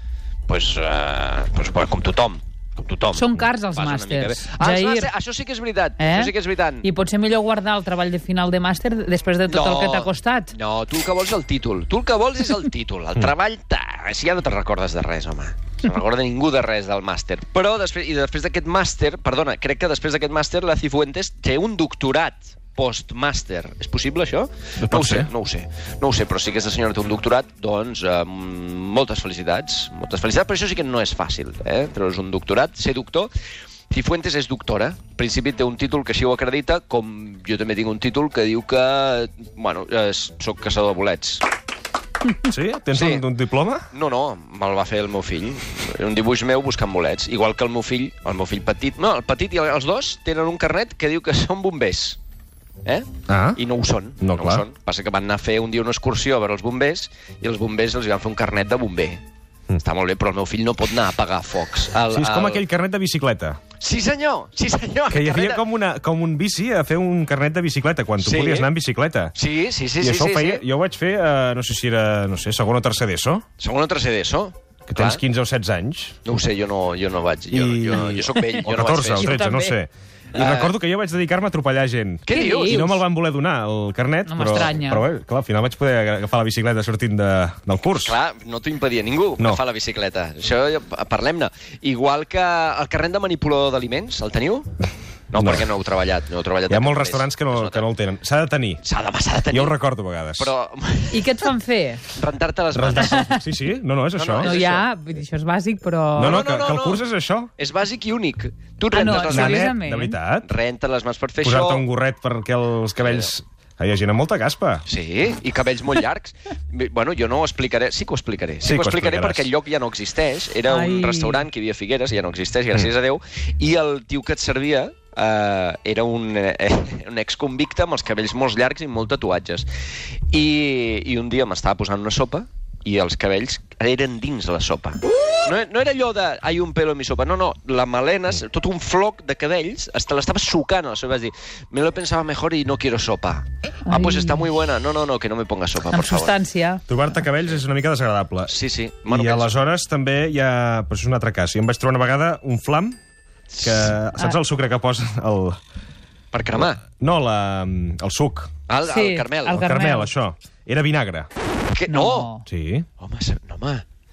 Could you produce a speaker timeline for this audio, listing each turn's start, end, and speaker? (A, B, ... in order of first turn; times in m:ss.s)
0:00.5-0:06.9 A
0:03.2-0:05.1 B
0:06.0-0:10.5 B
0:09.5-0:33.3 A
0:24.8-0:25.3 C
0:33.9-0:41.4 A
0:42.4-0:43.9 C
0:42.9-0:43.2 A
0:43.9-0:52.2 A
0:52.8-0:59.2 A
0:53.3-0:53.6 C
0:54.2-0:54.7 C
0:59.8-1:02.6 A
1:02.1-1:03.6 C
1:03.8-1:05.6 A
1:05.1-1:09.3 C
1:08.2-1:08.7 A
1:09.4-1:10.6 A
1:10.0-1:13.4 C
1:13.6-1:15.2 A
1:14.9-1:16.2 C
1:16.2-1:19.4 A
1:17.5-1:28.2 C
1:19.1-1:19.8 B
1:20.4-1:20.8 A
1:22.3-1:23.0 A
1:22.3-1:23.0 B
1:24.3-1:25.0 B
1:28.0-1:34.7 A
1:35.3-1:37.9 A
1:35.3-1:35.7 C
1:36.7-1:38.8 C
1:38.8-1:39.8 A
1:39.5-1:40.5 C
1:40.4-1:41.3 A
1:41.1-1:42.0 B
1:42.1-1:43.4 A
1:42.8-1:44.6 C
1:42.9-1:43.4 B
1:44.2-1:44.9 A
1:44.4-1:46.4 B
1:46.2-1:47.5 C
1:46.2-1:47.0 A
1:47.6-1:49.7 A
1:48.9-1:50.2 B
1:49.0-1:50.5 C
1:50.4-1:51.9 A
1:51.4-1:54.8 C
1:54.9-2:09.7 A
1:58.6-1:59.5 C
2:00.7-2:01.4 B
2:10.3-2:26.4 A
2:23.9-2:24.5 B
2:25.9-2:26.8 B
2:26.9-2:28.5 C
2:28.4-2:29.6 A
2:29.0-2:33.0 C
2:33.5-2:33.9 A
2:33.6-2:35.6 C
2:36.3-2:36.8 A
2:37.0-2:38.5 C
2:38.7-2:39.7 A
2:38.9-2:40.1 B
2:39.5-2:41.3 C
2:41.7-2:42.3 A
2:41.9-2:42.4 B
2:42.5-2:42.9 C
2:43.0-2:43.8 A